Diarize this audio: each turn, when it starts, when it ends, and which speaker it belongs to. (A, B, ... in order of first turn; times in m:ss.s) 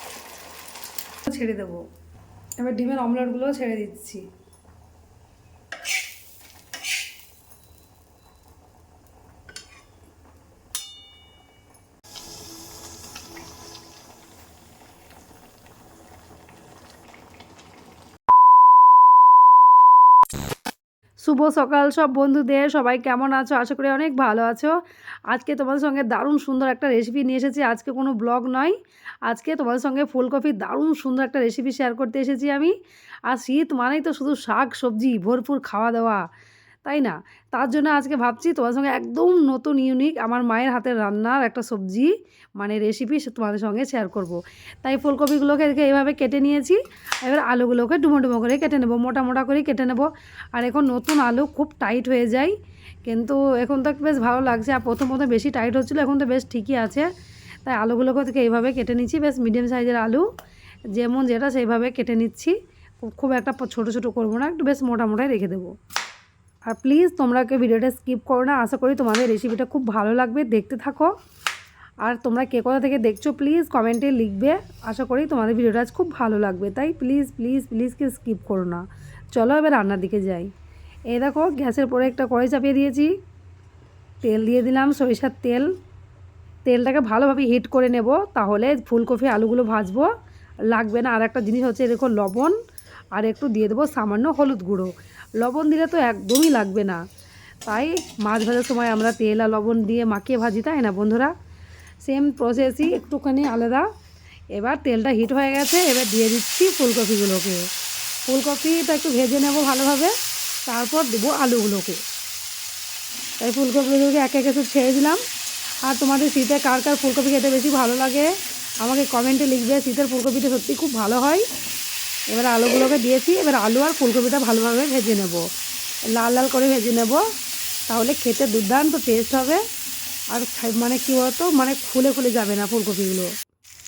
0:01.3-0:01.8 A
0:02.6-0:04.2 A
0:21.2-0:24.8 A
0:25.3-0:32.7 A
0:33.3-0:36.2 A
0:36.8-0:52.5 A
0:53.0-0:57.0 A
0:57.6-1:00.2 A
1:01.0-1:05.7 A
1:06.7-1:11.1 A
1:12.0-1:18.8 A
1:19.3-1:20.5 A
1:21.1-1:23.1 A
1:24.2-1:25.7 A
1:26.6-1:30.1 A
1:30.7-1:32.6 A
1:33.1-1:37.0 A
1:37.6-1:41.3 A
1:42.0-1:43.8 A
1:44.5-1:47.6 A
1:48.3-1:50.1 A
1:50.6-1:52.0 A
1:53.4-1:55.2 A
1:55.8-1:58.3 A
1:58.8-2:01.4 A
2:02.3-2:05.4 A
2:06.1-2:07.2 A
2:07.9-2:09.6 A
2:10.3-2:13.3 A